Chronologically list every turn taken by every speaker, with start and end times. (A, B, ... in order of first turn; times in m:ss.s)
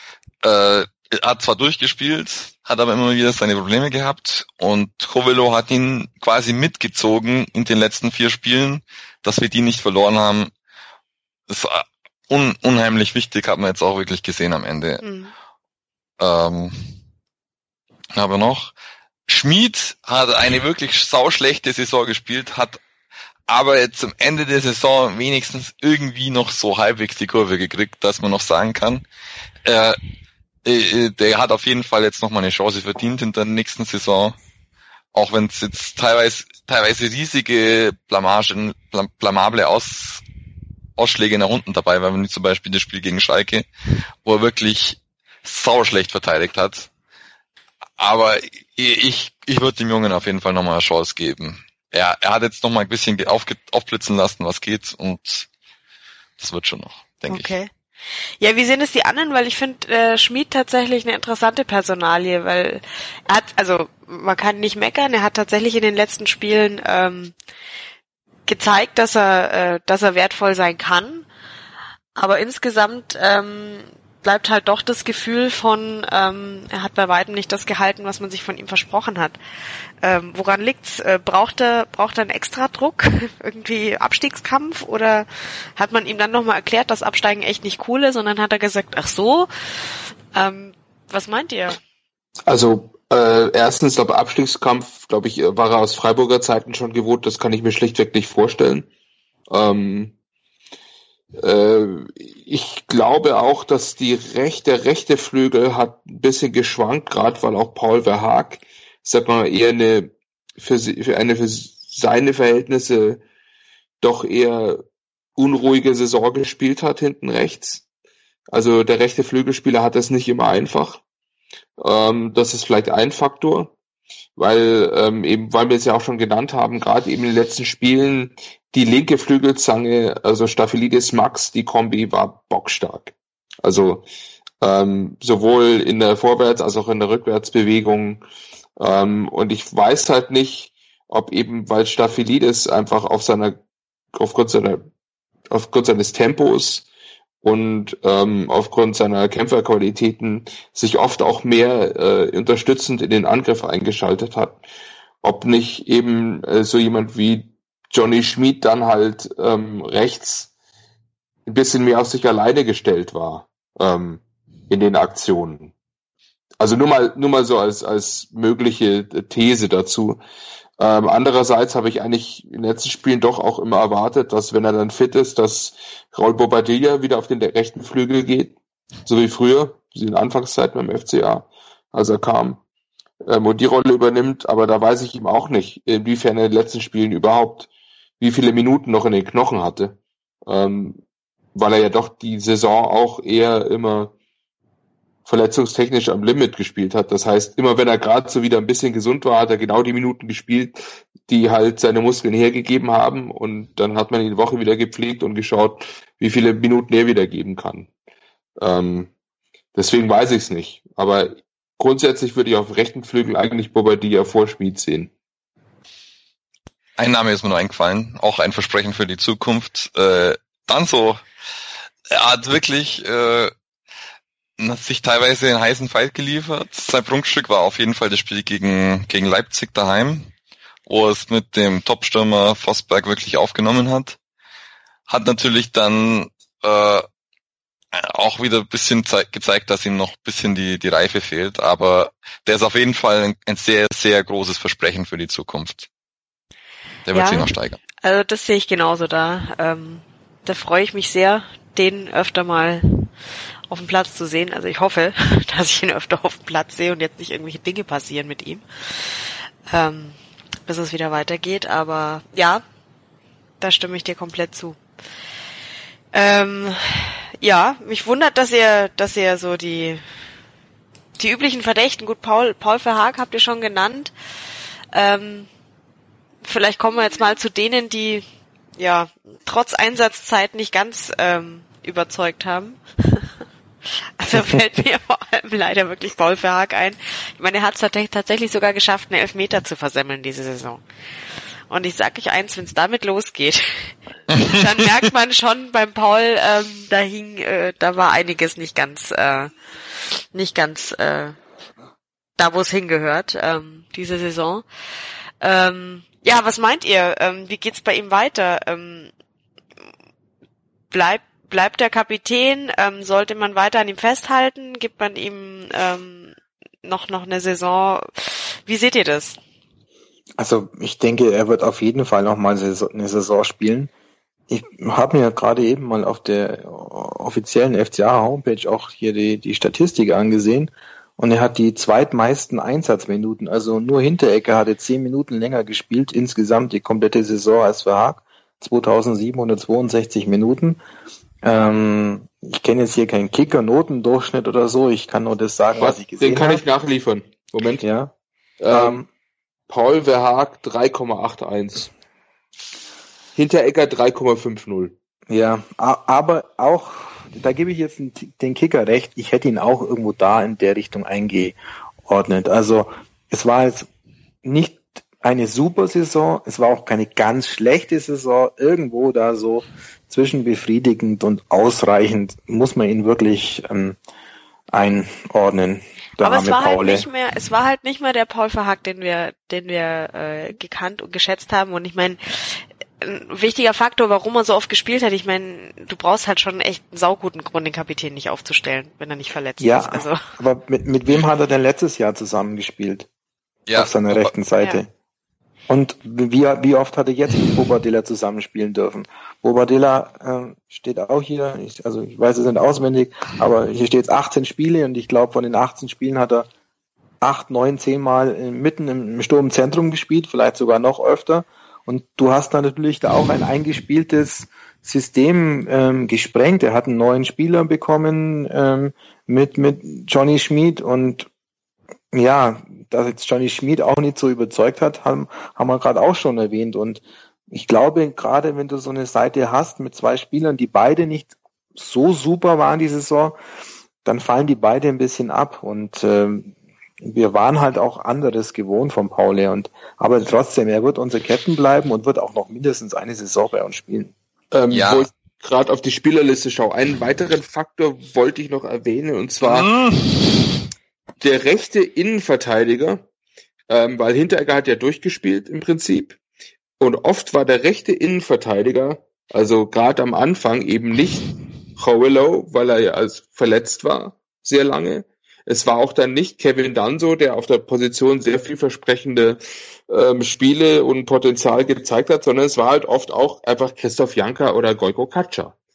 0:00.4-0:10.5 A
0:11.5-0:15.0 A
0:15.0-0:15.3 B
0:16.2-0:16.8 A
0:18.2-0:18.7 A
0:19.3-0:22.8 A
0:23.5-0:29.0 A
0:29.6-0:30.0 A
0:30.6-0:34.4 A
0:35.1-0:40.2 A
0:41.0-0:43.7 A
0:44.2-0:46.9 A
0:48.0-0:55.5 A
0:56.4-0:57.5 A
0:57.3-0:57.7 B
0:58.4-1:07.4 B
1:08.5-1:11.3 B
1:12.2-1:19.4 B
1:20.0-1:31.8 B
1:32.5-1:38.9 C
1:39.5-1:40.1 C
1:41.4-1:53.2 C
1:54.0-1:54.8 C
1:55.4-1:57.8 C
1:58.5-2:01.0 C
2:01.8-2:03.7 C
2:04.4-2:14.1 C
2:14.6-2:18.2 C
2:18.8-2:23.6 C
2:24.1-2:24.8 C
2:25.5-2:26.9 C
2:27.4-2:34.6 C
2:35.2-2:40.5 C
2:41.5-2:45.7 C
2:46.6-2:50.2 C
2:50.8-2:58.6 C
2:59.1-3:02.6 C
3:03.2-3:07.7 C
3:08.2-3:11.0 C
3:11.6-3:14.1 C
3:15.3-3:27.9 C
3:28.6-3:29.1 C
3:29.8-3:35.1 C
3:37.0-3:41.2 A
3:42.1-3:43.5 A
3:44.6-3:50.3 A
3:50.9-3:54.2 A
3:55.1-3:57.1 A
3:57.9-4:05.9 A
4:07.1-4:07.8 A
4:07.1-4:07.5 B
4:08.0-4:13.1 B
4:13.7-4:19.1 B
4:19.7-4:22.6 B
4:23.6-4:24.8 B
4:26.1-4:30.0 B
4:31.2-4:34.1 B
4:34.9-4:35.5 B
4:36.4-4:38.2 B
4:38.8-4:43.3 B
4:44.2-4:50.8 B
4:51.7-4:59.5 B
5:00.3-5:01.4 B
5:02.4-5:04.6 B
5:05.4-5:09.1 B
5:10.9-5:19.4 B
5:20.4-5:23.9 D
5:24.5-5:40.8 D
5:41.4-5:46.6 D
5:45.8-5:47.8 C
5:47.8-5:48.1 D
5:48.6-5:49.0 C
5:48.7-5:49.1 D
5:49.7-5:51.9 C
5:53.4-5:54.9 C
5:55.3-6:03.9 D
6:04.4-6:14.0 D
6:14.7-6:17.1 D
6:16.2-6:30.2 B
6:29.6-6:33.1 D
6:33.7-6:34.3 A
6:33.8-6:34.9 D
6:35.7-6:46.5 D
6:47.2-7:01.3 D
7:02.1-7:13.4 D
7:14.0-7:24.1 D
7:24.5-7:29.7 C
7:24.7-7:25.1 A
7:29.4-7:30.4 A
7:31.2-7:33.0 C
7:33.7-7:36.2 C
7:36.8-7:55.5 C